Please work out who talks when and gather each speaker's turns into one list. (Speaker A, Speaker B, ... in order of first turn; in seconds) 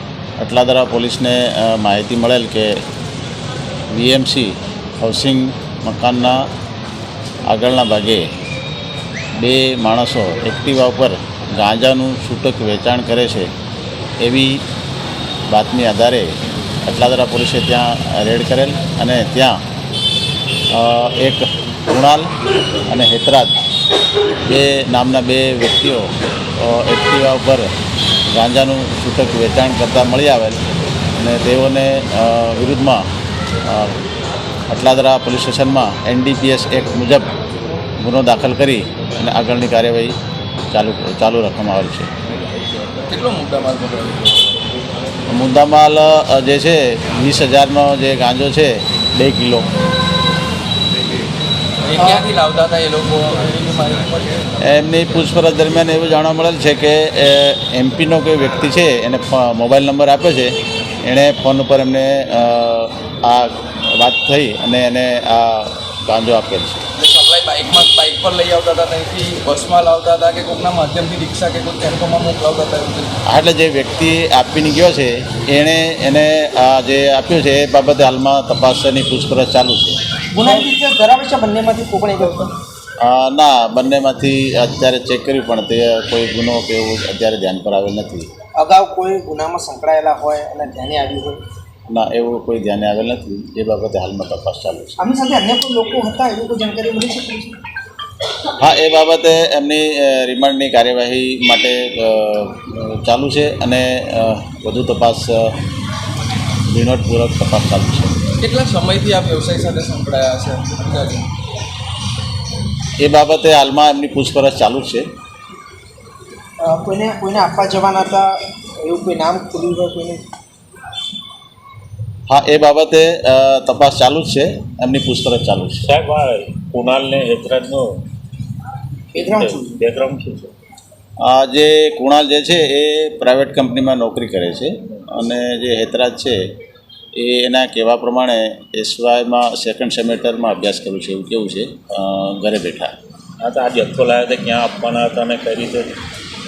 Speaker A: 0.4-2.7, 3.9-6.5, 7.5-8.2, 9.4-13.5, 14.2-14.6, 15.5-19.6, 20.7-22.3, 22.9-23.6, 24.5-27.7, 28.3-30.6, 31.2-33.0, 33.7-34.0, 34.7-37.3, 38.0-40.2, 40.7-42.1, 45.3-49.7, 54.6-66.8, 73.3-80.0, 83.0-88.3, 91.9-95.0, 98.6-105.5, 106.7-108.2, 113.0-115.1, 122.3-125.8, 131.2-136.4, 137.2-142.9
Speaker B: 43.1-44.5, 51.9-54.5, 67.0-73.2, 108.4-111.3
Speaker C: 52.0-52.2, 80.3-82.5, 88.6-91.4, 95.0-97.6, 116.6-120.2, 129.1-129.8
Speaker D: 125.8-128.0, 129.1-130.5, 143.4-145.9